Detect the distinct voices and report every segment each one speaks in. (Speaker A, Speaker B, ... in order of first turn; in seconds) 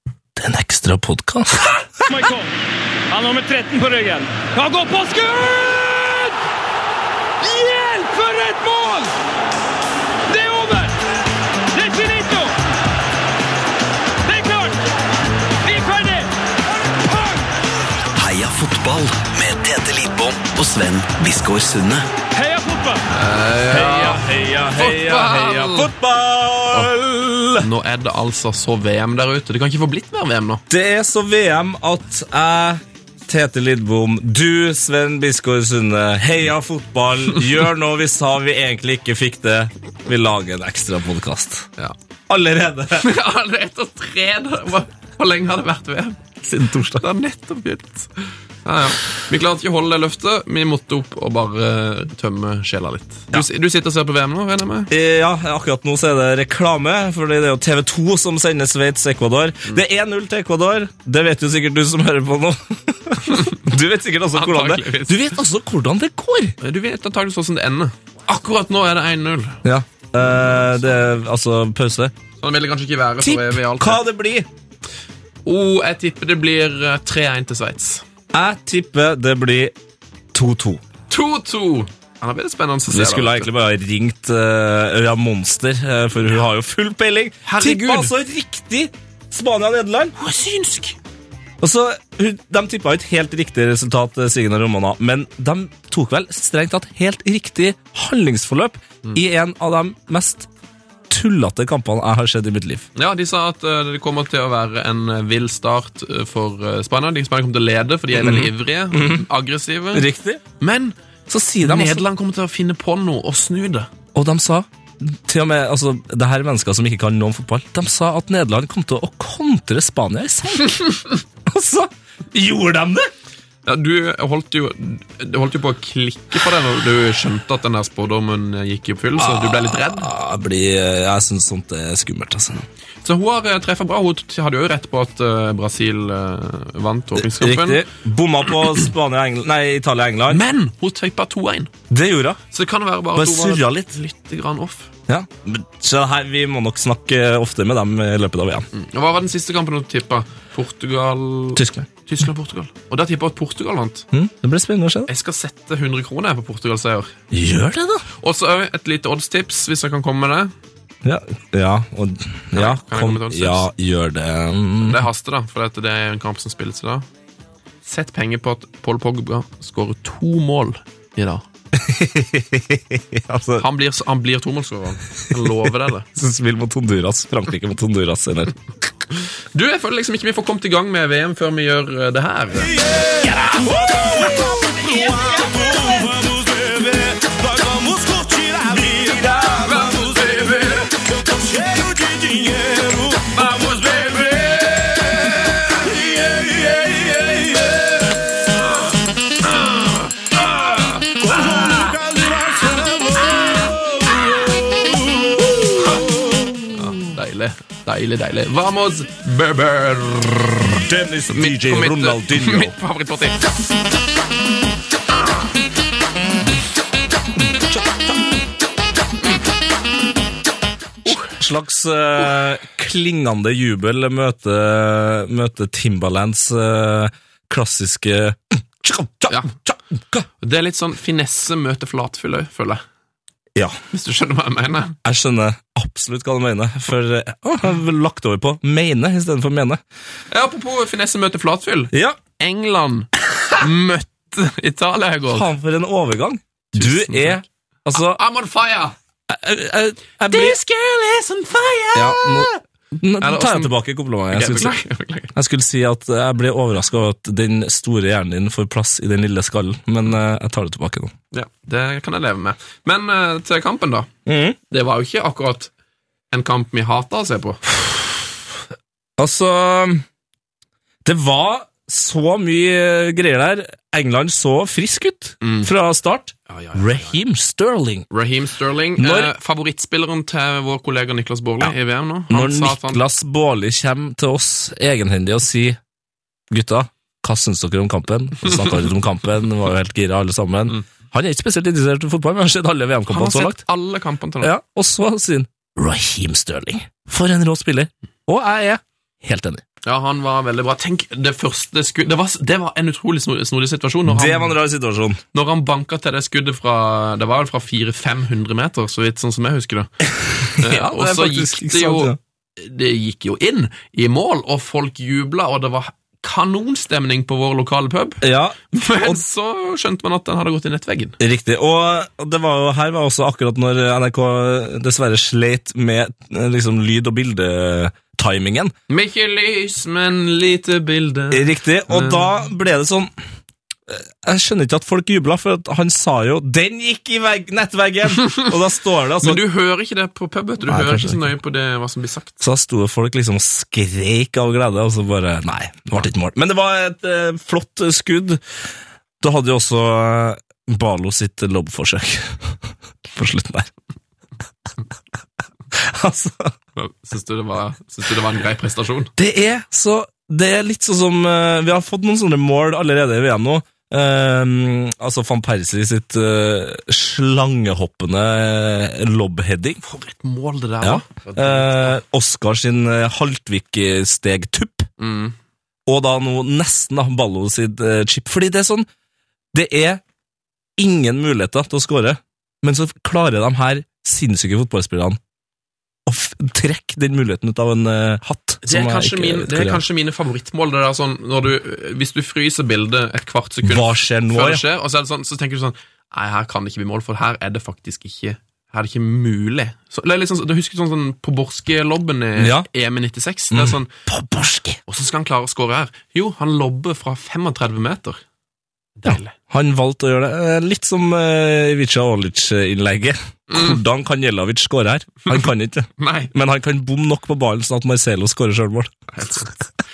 Speaker A: 0.4-2.1, 23.7-27.7, 30.7-41.7, 42.3-43.1, 46.4-47.0, 54.9-66.6, 69.6-72.1, 73.2-74.5, 78.3-79.7, 80.3-80.8, 82.9-90.2, 91.6-100.5, 101.1-102.9, 108.1-109.3, 109.9-110.4, 111.3-112.0, 114.2-123.1, 129.2-132.7, 137.2-140.4, 141.9-142.4, 143.2-143.9, 145.1-148.7, 151.6-151.9, 154.1-155.1, 157.3-158.0, 161.0-165.0, 171.7-173.7, 176.1-178.6, 182.7-190.4, 191.0-198.6, 200.3-206.9, 210.8-212.8, 217.5-218.3, 221.1-230.3, 235.0-239.8, 241.9-242.2, 245.3-248.2, 249.3-250.6, 251.9-254.8, 255.3-261.1, 264.3-264.6, 269.2-270.1, 271.1-278.1, 279.0-279.3, 282.3-285.8, 286.5-293.6, 294.4-299.6, 304.1-305.2, 310.2-312.2, 318.2-319.2, 321.2-328.7, 331.3-333.1, 333.9-339.4, 340.7-341.3, 342.4-348.4, 349.2-353.7, 355.7-356.5, 359.2-369.8, 370.8-374.9, 375.9-378.9, 379.5-380.0, 380.8-385.2, 386.1-389.8, 393.6-394.6, 402.4-402.7, 403.5-404.8, 409.1-418.9
Speaker B: 2.0-2.5, 3.1-6.3, 7.4-9.1, 10.3-11.0, 11.7-12.6, 14.2-14.8, 15.6-16.3, 16.9-17.5, 22.3-23.1
Speaker C: 18.1-22.1
Speaker D: 23.1-25.9, 27.6-30.6, 43.0-54.9, 63.3-63.6, 64.3-65.3, 66.6-69.6, 70.2-71.0, 72.4-74.0, 75.5-78.0, 81.1-83.5, 87.5-88.1, 90.2-91.0, 103.0-111.0, 111.6-113.9, 123.7-130.1, 133.0-137.9, 138.5-138.8, 140.3-141.7, 142.5-144.9, 148.7-154.1, 155.1-157.1, 158.2-160.5, 162.5-163.7, 164.8-167.1, 167.8-171.4, 173.6-176.1, 179.5-182.8, 189.5-191.1, 193.3-194.2, 206.8-213.5, 230.4-232.8, 233.9-235.0, 240.3-245.5, 246.8-247.4, 247.9-248.9, 250.3-252.6, 253.2-253.7, 254.3-255.3, 261.3-264.1, 264.7-265.7, 266.3-267.8, 275.4-275.7, 276.5-277.2, 278.1-283.0, 293.1-294.5, 299.8-304.6, 305.3-309.9, 310.4-321.2, 328.9-332.3, 339.2-342.4, 356.8-359.1, 369.8-372.0, 375.0-375.4, 388.6-403.9, 404.9-408.2, 409.0-409.3, 413.5-413.8, 416.0-416.3, 419.1-419.5